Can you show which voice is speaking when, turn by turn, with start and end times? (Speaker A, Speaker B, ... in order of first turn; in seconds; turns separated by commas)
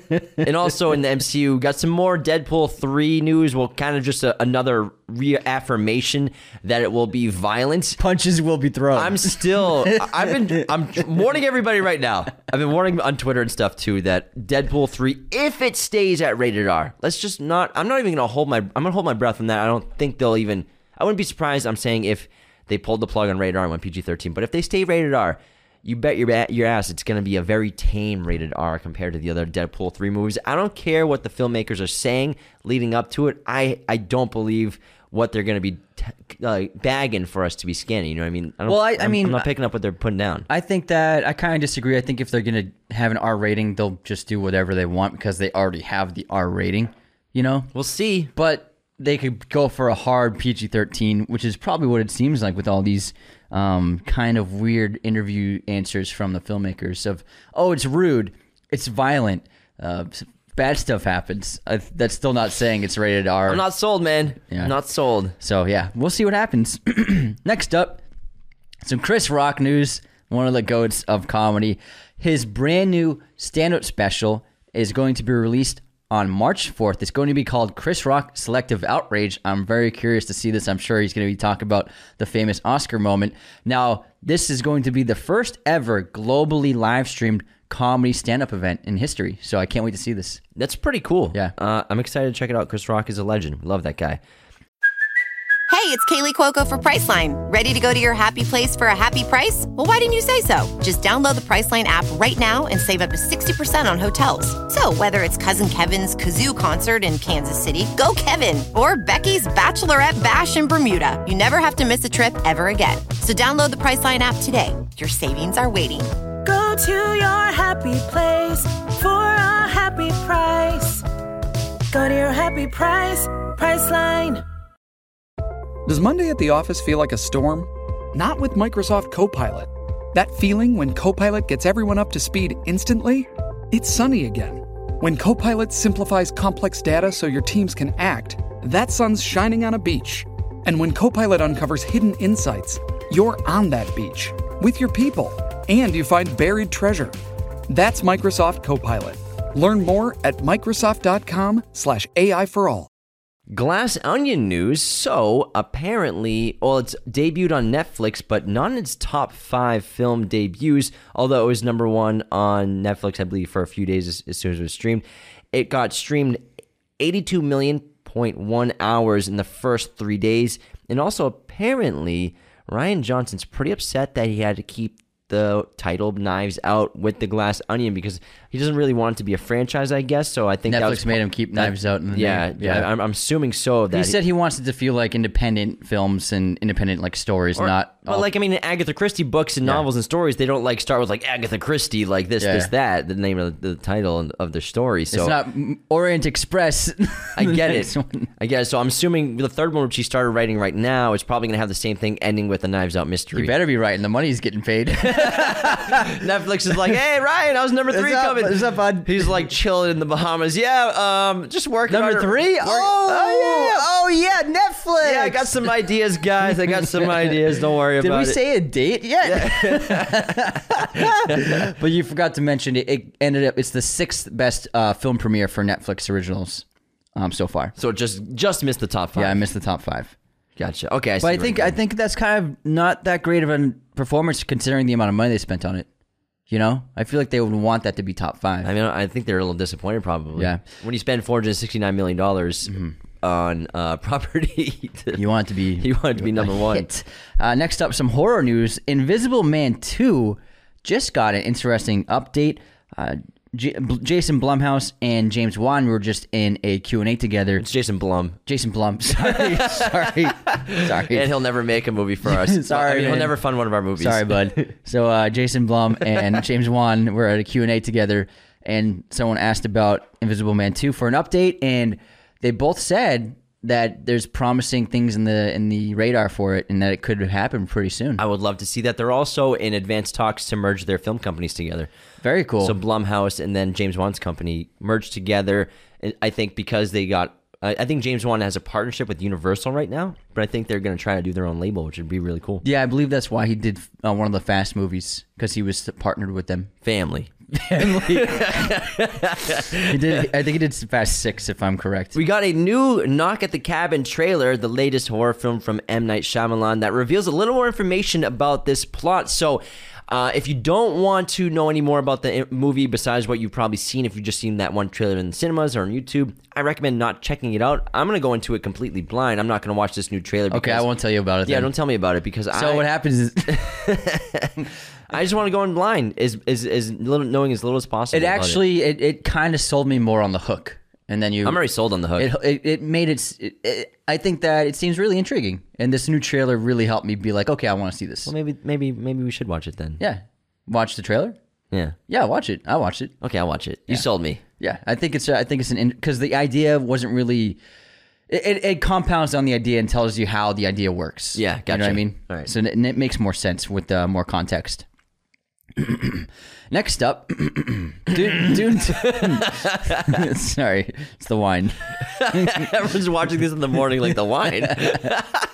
Speaker A: 0.4-8.0, Speaker B: 8.0-10.7, Speaker A: 8.9-40.5, Speaker B: 38.7-39.5, Speaker B: 40.5-47.7, Speaker A: 47.7-48.3, Speaker B: 48.3-63.6, Speaker A: 63.5-65.3, Speaker B: 65.4-68.0, Speaker B: 68.8-90.4, Speaker A: 90.5-94.2, Speaker C: 95.7-116.1, Speaker D: 116.4-121.0, Speaker D: 121.9-124.4, Speaker E: 125.8-147.1, Speaker E: 147.7-152.9, Speaker A: 153.5-166.4, Speaker A: 167.0-184.2, Speaker B: 180.7-182.9, Speaker B: 183.9-188.3, Speaker A: 187.6-195.4, Speaker B: 192.4-192.7, Speaker B: 195.1-198.3, Speaker A: 197.3-203.5, Speaker B: 203.3-206.2, Speaker A: 205.1-213.8, Speaker B: 207.9-209.4, Speaker B: 211.9-215.7, Speaker A: 215.0-218.4, Speaker B: 216.7-217.4, Speaker B: 218.0-227.7, Speaker A: 219.2-221.7, Speaker A: 227.8-229.4, Speaker B: 229.2-230.1, Speaker A: 230.6-231.8, Speaker B: 231.2-235.9, Speaker B: 236.5-238.7, Speaker A: 238.6-245.2, Speaker B: 240.3-240.6, Speaker B: 242.7-242.9, Speaker B: 245.1-257.6, Speaker A: 245.8-246.9, Speaker A: 257.6-258.4, Speaker B: 258.4-261.3, Speaker A: 259.2-264.7, Speaker B: 262.2-263.4, Speaker B: 264.0-278.2, Speaker A: 278.2-281.9, Speaker B: 282.2-282.8, Speaker A: 282.6-292.6, Speaker B: 292.6-296.7, Speaker A: 296.8-300.2, Speaker B: 297.5-298.8, Speaker B: 299.9-302.1, Speaker A: 302.1-320.9, Speaker B: 320.5-321.7, Speaker A: 321.4-322.9, Speaker B: 322.5-323.9, Speaker A: 323.4-324.6, Speaker A: 325.1-328.6, Speaker B: 328.1-331.6, Speaker A: 331.4-332.3, Speaker B: 332.1-338.3, Speaker A: 338.2-340.0, Speaker B: 340.0-341.4, Speaker A: 341.7-342.0, Speaker B: 342.1-343.1, Speaker A: 343.2-344.4, Speaker B: 344.6-347.6, Speaker B: 348.3-354.9, Speaker A: 351.3-352.5, Speaker B: 355.7-362.7, Speaker A: 358.9-360.2, Speaker A: 362.0-365.4